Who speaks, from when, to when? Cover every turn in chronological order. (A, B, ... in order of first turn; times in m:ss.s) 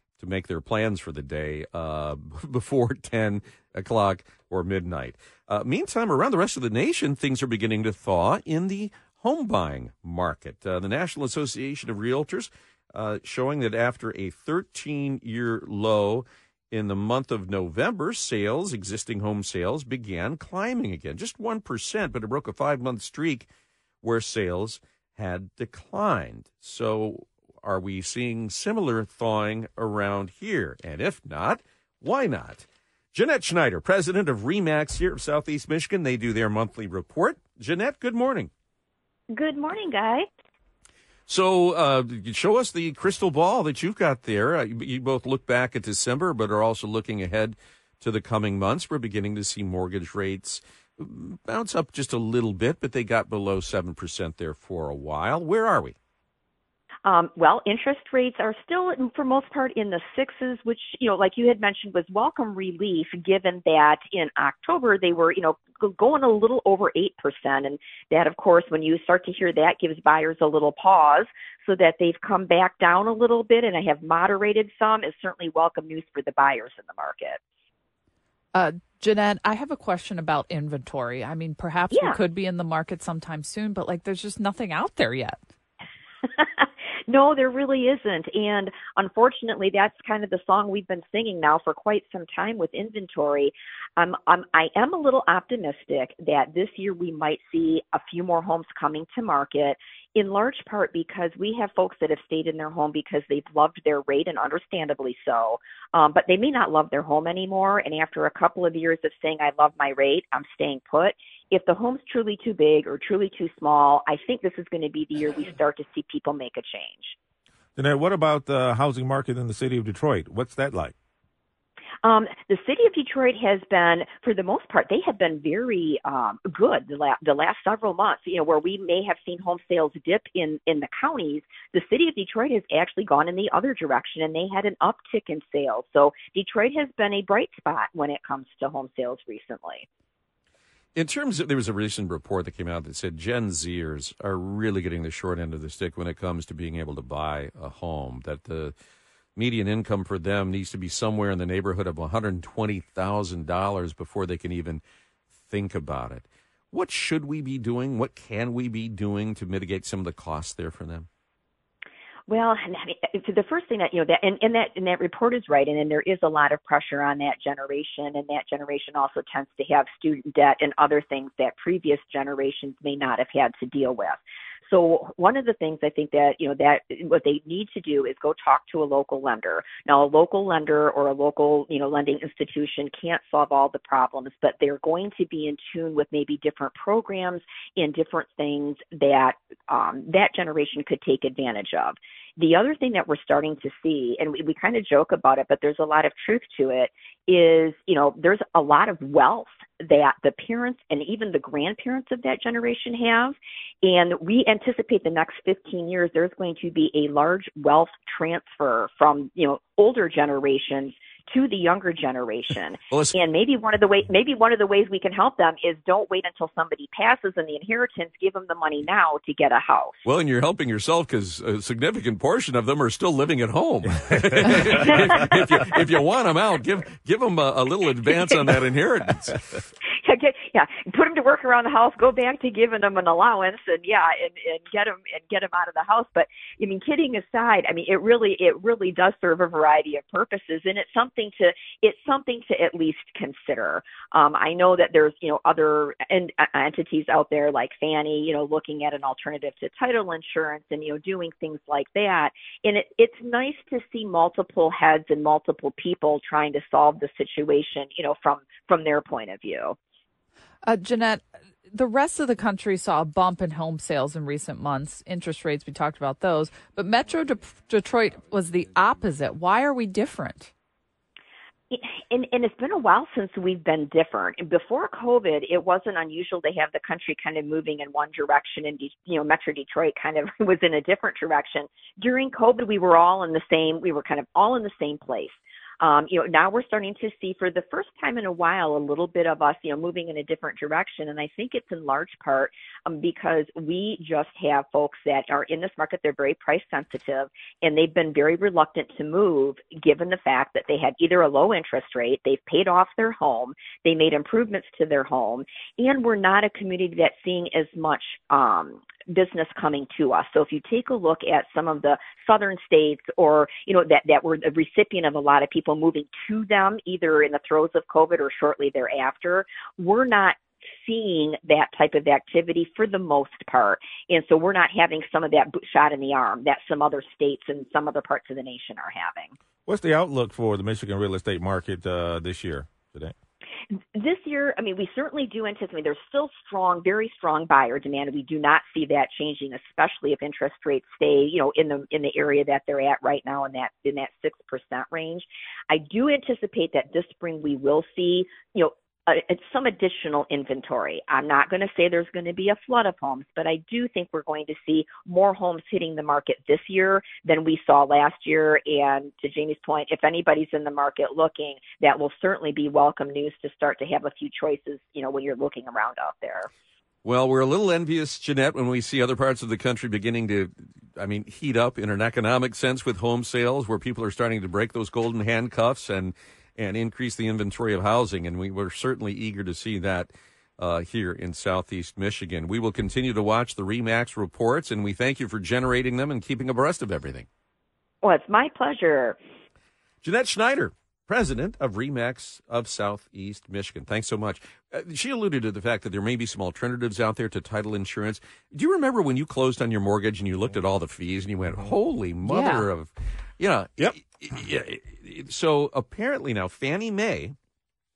0:00.2-0:23.5 A
0:24.0-0:38.5 A
0:39.3-0:40.2 B
0:41.3-0:56.0 A
0:57.0-1:17.4 B
1:18.5-1:25.4 C
1:21.9-1:22.2 B
1:26.2-1:57.2 B
1:57.8-2:00.9 D
2:02.0-2:19.8 B
2:21.0-2:28.7 A
2:29.4-2:34.8 A
2:35.4-2:41.1 A
2:42.3-3:40.0 B
3:32.9-3:33.2 A
3:40.0-3:49.4 A
3:50.0-4:19.8 B
4:20.6-4:30.5 C
4:31.7-5:29.3 B
5:29.6-5:33.1 D
5:33.7-6:06.5 B
6:07.0-6:27.3 A
6:28.0-6:29.2 B
6:30.0-6:47.4 A
6:42.2-6:42.6 C